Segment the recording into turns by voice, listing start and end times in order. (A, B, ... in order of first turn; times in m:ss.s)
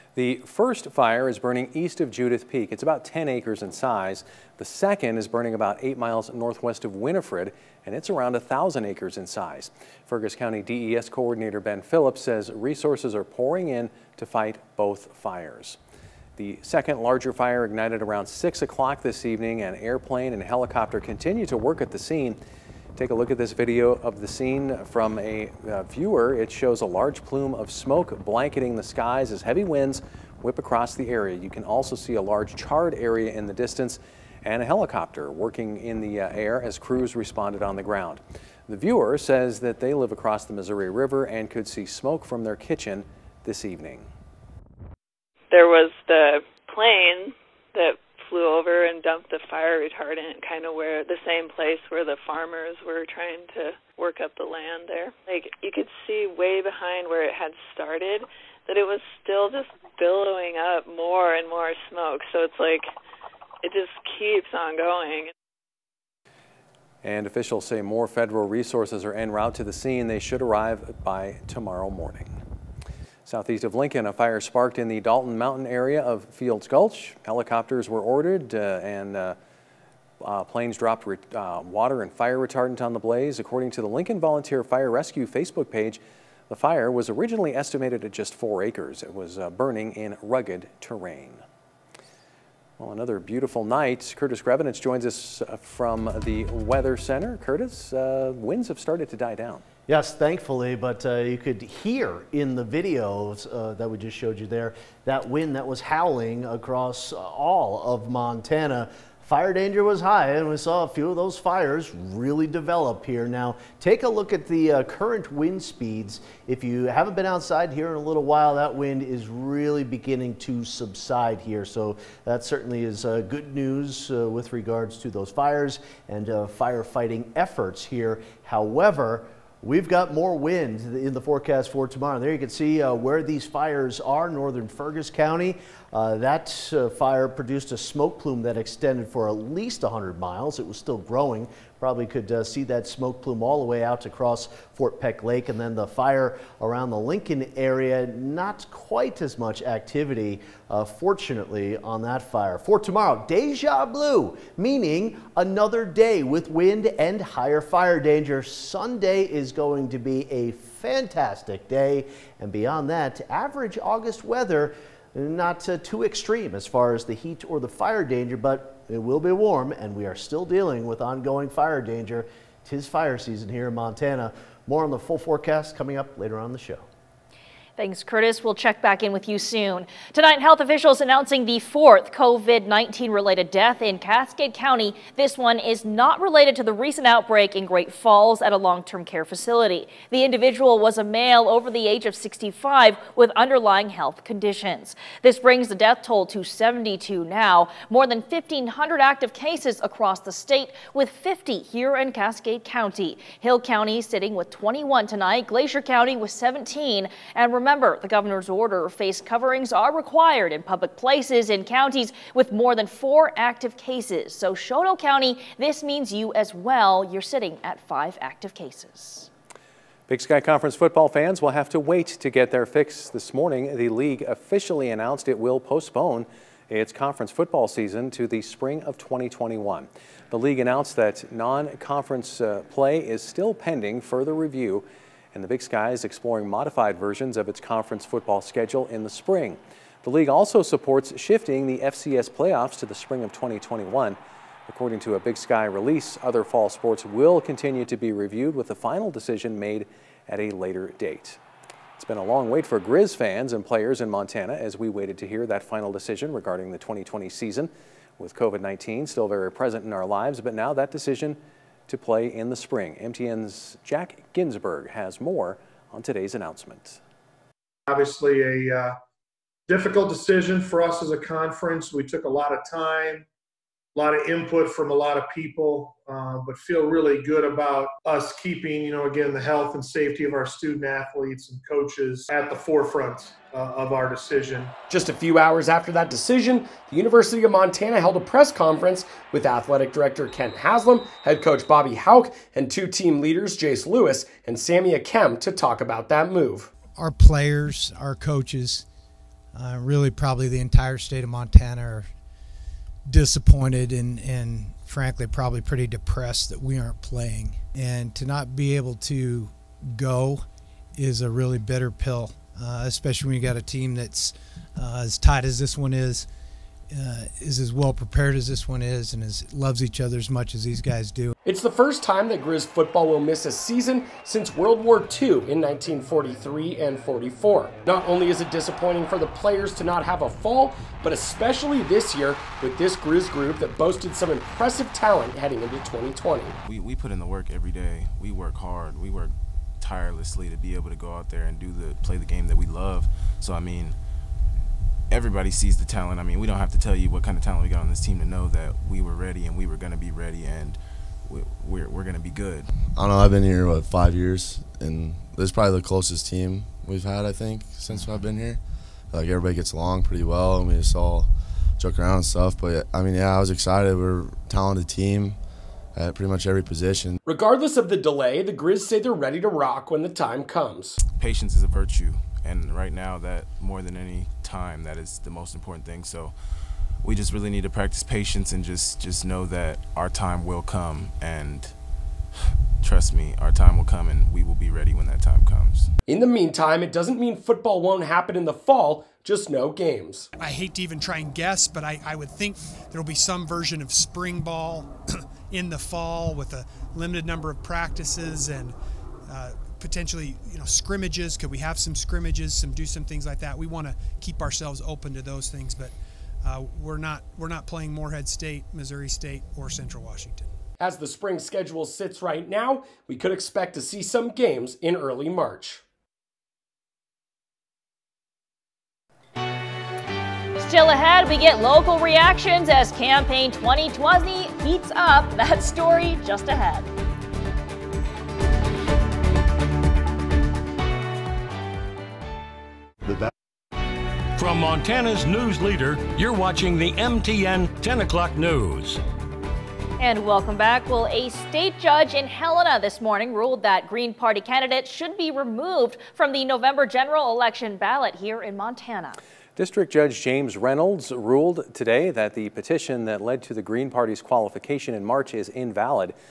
0:00.2-0:15.8 A
0:16.4-0:22.4 A
0:23.0-0:44.1 A
0:45.5-1:02.9 B
1:03.6-1:05.3 B
1:07.0-1:12.3 A
1:13.2-1:19.4 A
1:20.2-1:31.4 A
1:32.8-1:39.6 A
1:39.9-2:56.8 C
2:57.8-3:39.3 D
3:40.1-4:11.4 A
4:12.0-4:27.0 A
4:27.9-4:29.0 E
4:29.7-4:33.2 E
4:33.9-4:44.8 E
4:44.9-4:56.7 F
4:56.9-4:58.8 G
4:59.5-5:02.1 G
5:03.1-5:16.3 G
5:16.9-5:21.3 G
5:21.4-5:36.5 F
5:36.5-5:44.0 H
5:45.1-5:52.7 H
5:52.9-6:07.2 I
6:07.2-6:11.0 F
6:11.1-6:21.8 H
6:22.8-6:25.9 H
6:26.1-6:30.3 F
6:30.4-6:34.9 J
6:35.5-6:50.5 J
6:50.8-6:55.8 F
7:00.6-7:06.9 D
7:14.3-7:19.0 K
7:20.0-7:29.2 D
7:29.6-7:36.1 A